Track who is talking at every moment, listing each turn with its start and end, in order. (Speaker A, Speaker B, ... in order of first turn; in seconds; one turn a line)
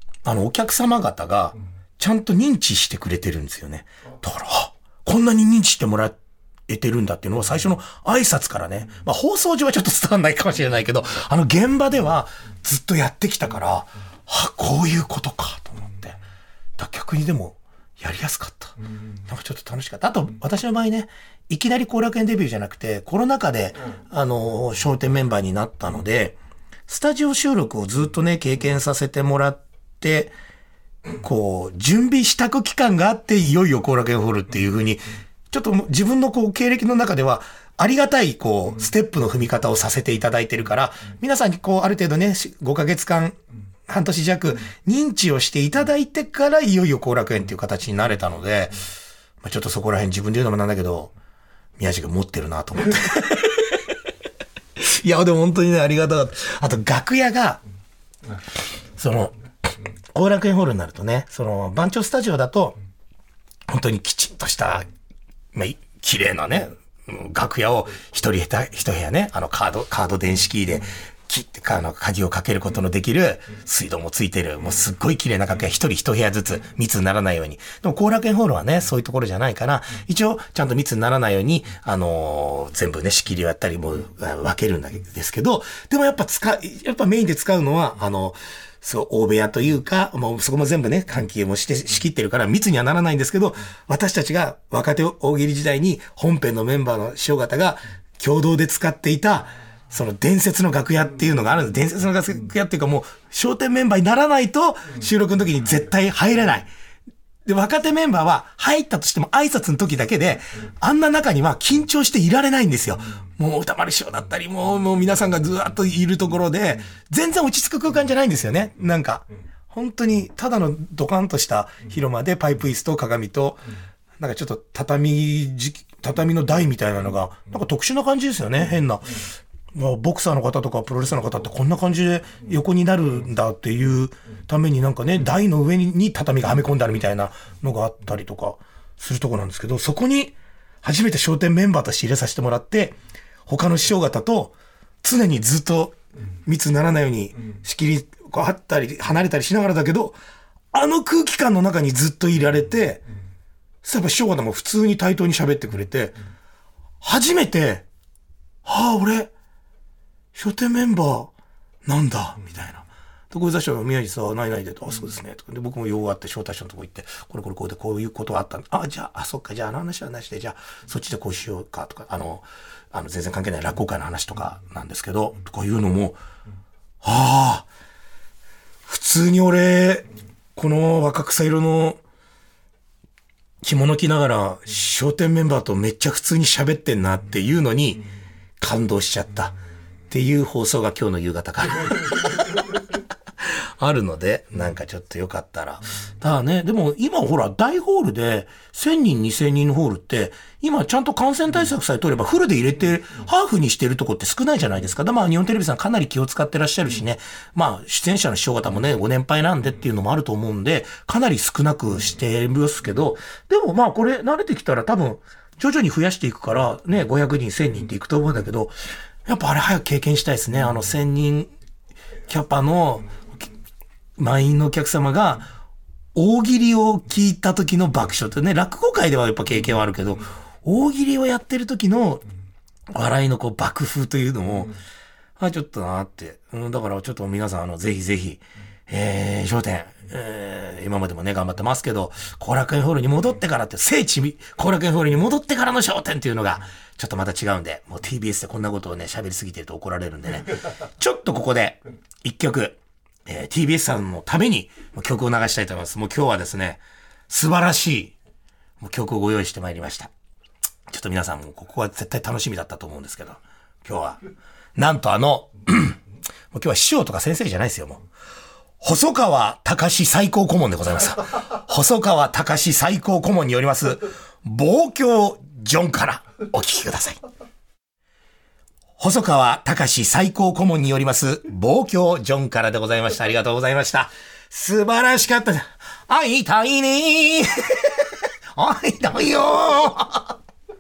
Speaker A: 0.2-16.2
Speaker A: 16.8-26.4
Speaker A: 26.9-30.4
Speaker A: 31.2-48.8
Speaker A: 49.4-51.1
Speaker A: 51.8-53.8
Speaker A: 54.8-57.6
Speaker A: 59.0-59.4
Speaker A: 60.1-62.8
Speaker A: 63.7-64.9
Speaker A: 65.5-106.7
Speaker A: 107.5-123.6
Speaker A: 124.2-143.0
Speaker A: 143.5-150.2
Speaker A: 150.7-153.0
Speaker A: 153.8-156.2
Speaker A: 157.0-157.9
Speaker A: 158.7-159.3
Speaker A: 160.3-161.3
Speaker A: 161.9-176.2
Speaker A: 177.0-177.7
Speaker A: 178.9-182.0
Speaker A: 183.6-188.0
Speaker A: 188.6-189.6
Speaker A: 190.1-192.6
Speaker A: 193.4-218.8
Speaker A: 219.3-221.5
Speaker A: 222.3-223.2
Speaker A: 224.2-225.5
Speaker A: 226.2-232.2
Speaker A: 232.9-234.8
Speaker A: 235.4-258.1
Speaker A: 258.8-260.1
Speaker A: 260.9-264.2
Speaker A: 264.8-266.0
Speaker A: 266.5-268.0
Speaker A: 268.8-277.2
Speaker A: 279.0-290.4